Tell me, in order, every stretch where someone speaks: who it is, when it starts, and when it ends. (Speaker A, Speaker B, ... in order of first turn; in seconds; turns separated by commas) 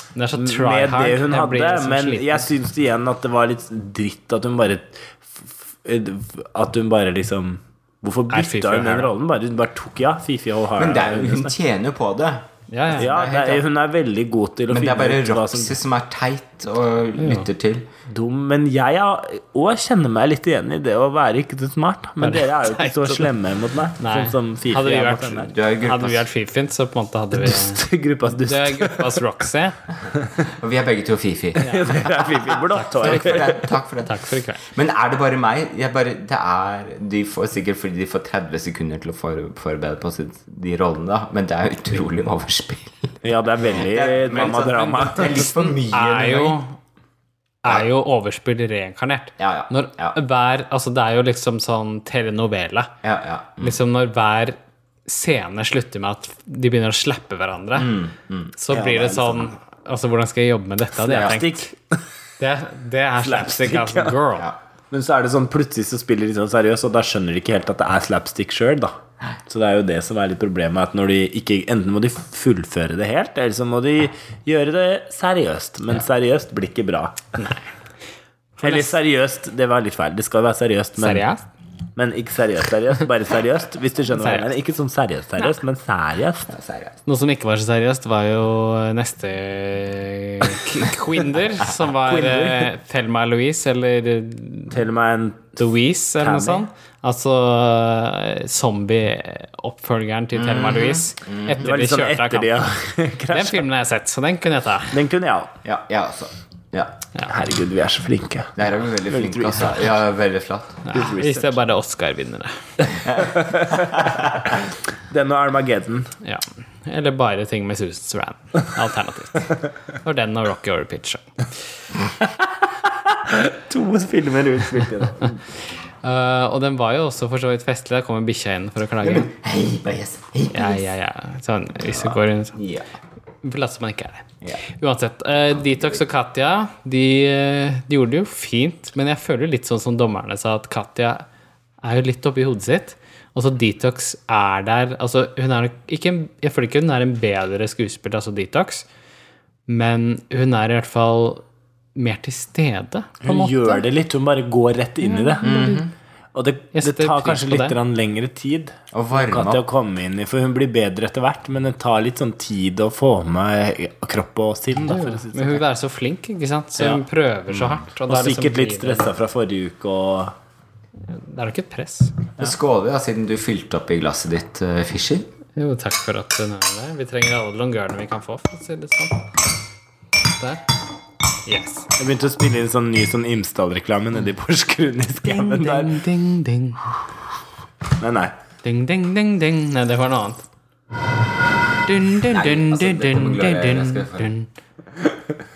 Speaker A: 0.1-2.5, Speaker B: 0.4-11.6, Speaker A: 8.3-9.1, Speaker C: 10.8-13.6, Speaker A: 12.7-13.2, Speaker B: 13.0-15.8, Speaker C: 14.7-17.9, Speaker A: 17.2-17.4, Speaker B: 18.1-25.5, Speaker A: 22.2-23.3, Speaker A: 24.0-27.8, Speaker C: 25.5-26.2, Speaker B: 27.3-29.2, Speaker A: 28.4-29.8, Speaker C: 30.4-32.0, Speaker A: 31.6-32.0, Speaker B: 31.6-33.6, Speaker A: 32.7-34.6, Speaker C: 33.0-43.2, Speaker B: 43.2-45.6, Speaker C: 43.8-46.6, Speaker A: 45.9-46.8, Speaker A: 47.6-52.9, Speaker C: 49.4-50.2, Speaker C: 53.0-53.8, Speaker A: 53.6-58.0, Speaker C: 57.8-59.3, Speaker A: 58.6-61.7, Speaker B: 58.7-59.4, Speaker B: 61.0-61.8, Speaker C: 61.1-61.4, Speaker A: 62.4-64.5, Speaker B: 63.2-64.2, Speaker B: 64.9-69.0, Speaker B: 69.5-77.2, Speaker A: 77.4-77.6, Speaker A: 78.6-78.9, Speaker B: 78.6-81.2, Speaker A: 81.0-81.4, Speaker B: 82.0-86.5, Speaker A: 84.2-84.5, Speaker C: 86.5-87.0, Speaker A: 87.1-94.8, Speaker B: 92.1-92.7, Speaker B: 94.7-95.6, Speaker A: 95.6-102.6, Speaker B: 96.2-96.7, Speaker C: 100.3-101.7, Speaker B: 101.6-103.6, Speaker A: 103.3-105.0, Speaker B: 104.9-105.5, Speaker C: 105.6-106.9, Speaker B: 107.3-108.5, Speaker C: 108.6-110.9, Speaker B: 109.1-109.9, Speaker A: 110.8-112.6, Speaker B: 110.9-111.5, Speaker B: 113.2-116.1, Speaker C: 113.9-114.2, Speaker A: 116.2-121.3, Speaker B: 123.1-125.4, Speaker A: 126.0-129.3, Speaker C: 129.0-130.8, Speaker A: 130.5-132.6, Speaker C: 131.8-132.9, Speaker A: 133.4-141.2, Speaker A: 141.8-148.8, Speaker A: 149.7-151.4, Speaker A: 151.9-153.8, Speaker B: 153.2-155.6, Speaker A: 155.0-155.9, Speaker C: 155.4-155.9, Speaker B: 156.3-165.6, Speaker A: 156.7-157.7, Speaker C: 158.9-159.6, Speaker A: 164.8-169.1, Speaker C: 167.5-167.8, Speaker B: 168.1-170.3, Speaker A: 171.1-172.2, Speaker C: 172.4-175.3, Speaker A: 175.6-179.2, Speaker A: 180.3-180.6, Speaker A: 181.4-181.9, Speaker B: 182.0-186.0, Speaker A: 185.2-186.9, Speaker B: 188.0-188.3, Speaker A: 188.6-190.4, Speaker A: 191.9-194.4, Speaker C: 192.2-194.3